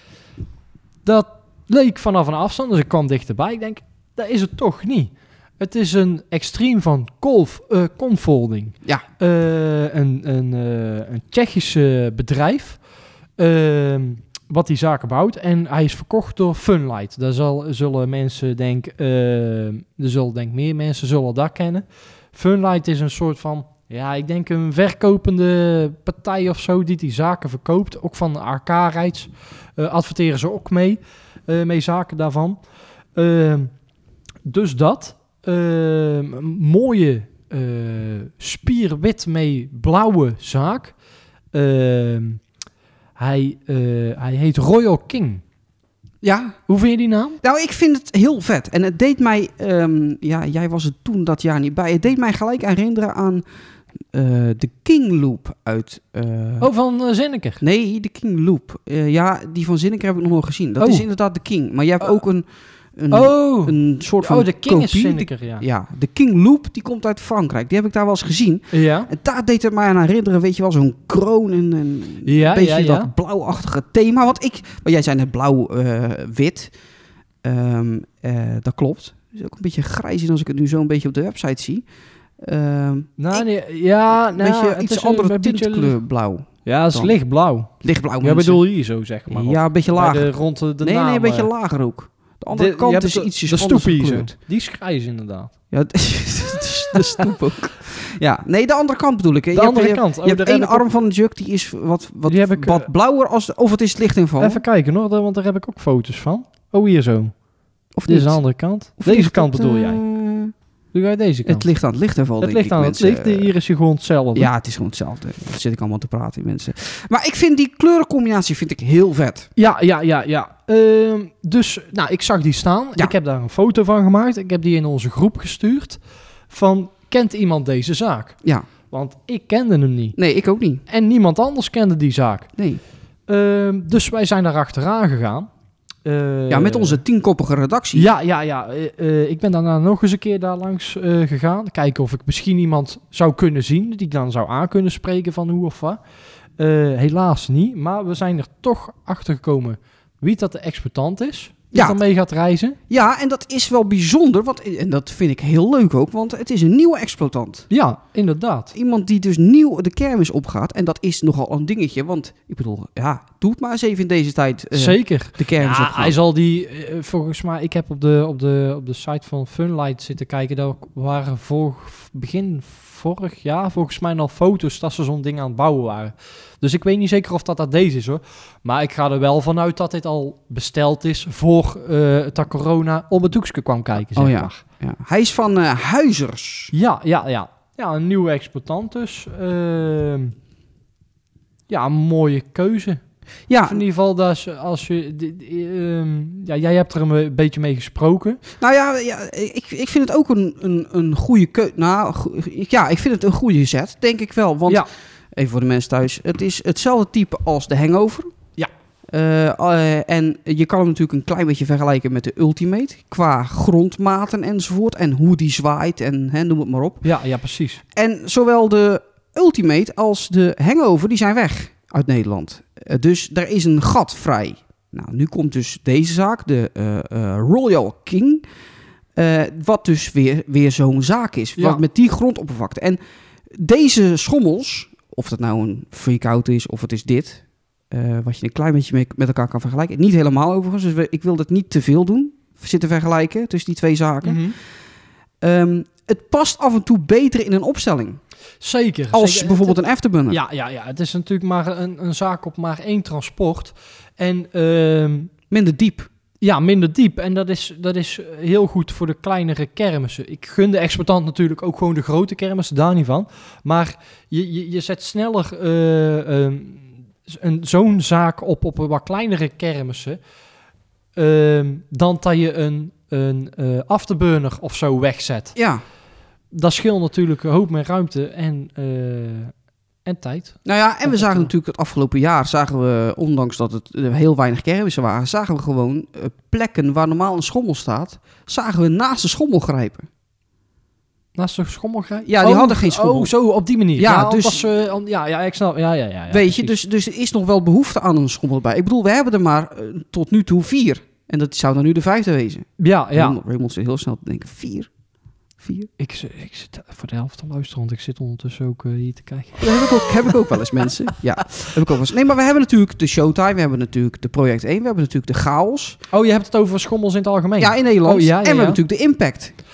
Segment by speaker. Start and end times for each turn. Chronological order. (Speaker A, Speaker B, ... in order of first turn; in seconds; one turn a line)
Speaker A: 1.0-12.8
Speaker A: 13.4-32.6
Speaker A: 33.1-33.7
Speaker A: 34.4-40.9
Speaker A: 41.5-42.4
Speaker A: 43.1-45.4
Speaker B: 46.2-46.6
Speaker A: 46.7-47.4
Speaker B: 47.4-53.4
Speaker B: 54.1-56.7
Speaker A: 56.6-57.6
Speaker B: 57.6-62.4
Speaker A: 60.8-61.0
Speaker B: 63.0-76.7
Speaker A: 63.1-65.6
Speaker A: 68.7-69.1
Speaker A: 72.2-73.1
Speaker B: 77.4-81.8
Speaker B: 82.4-83.5
Speaker A: 83.2-86.0
Speaker B: 84.3-87.1
Speaker A: 86.6-91.5
Speaker B: 87.8-88.6
Speaker B: 89.3-94.3
Speaker A: 92.5-95.5
Speaker B: 95.7-104.6
Speaker A: 99.5-100.8
Speaker A: 102.2-102.9
Speaker A: 104.4-107.4
Speaker B: 107.9-110.5
Speaker A: 108.1-110.0
Speaker A: 110.9-111.7
Speaker B: 111.4-113.5
Speaker A: 112.4-114.5
Speaker B: 114.3-119.5
Speaker A: 119.5-128.3
Speaker A: 128.9-130.2
Speaker B: 130.2-130.8
Speaker A: 130.9-132.5
Speaker B: 132.6-132.8
Speaker A: 133.3-135.5
Speaker A: 136.0-137.0
Speaker B: 136.5-138.1
Speaker A: 137.9-146.0
Speaker A: 146.6-152.8
Speaker B: 151.7-152.0
Speaker B: 152.9-157.7
Speaker A: 157.7-158.7
Speaker B: 158.7-166.1
Speaker A: 164.7-184.6
Speaker B: 184.1-186.7
Speaker A: 186.7-190.3
Speaker A: 191.7-193.0
Speaker B: 193.5-193.8
Speaker A: 193.6-198.4
Speaker B: 198.6-208.3
Speaker B: 209.1-217.1
Speaker A: 217.0-217.8
Speaker B: 217.9-228.4
Speaker B: 229.2-244.4
Speaker A: 231.6-231.8
Speaker A: 244.2-244.6
Speaker B: 245.4-248.2
Speaker A: 248.6-255.3
Speaker B: 249.1-250.4
Speaker B: 255.5-256.1
Speaker A: 256.4-270.2
Speaker A: 271.1-275.6
Speaker B: 275.5-275.8
Speaker A: 276.5-279.5
Speaker A: 280.0-281.5
Speaker B: 280.6-290.1
Speaker A: 291.4-296.8
Speaker B: 292.2-293.3
Speaker B: 293.9-294.7
Speaker B: 296.3-304.9
Speaker A: 302.8-303.4
Speaker B: 305.6-305.9
Speaker A: 306.0-309.8
Speaker B: 309.6-316.0
Speaker A: 316.1-318.8
Speaker B: 317.6-319.6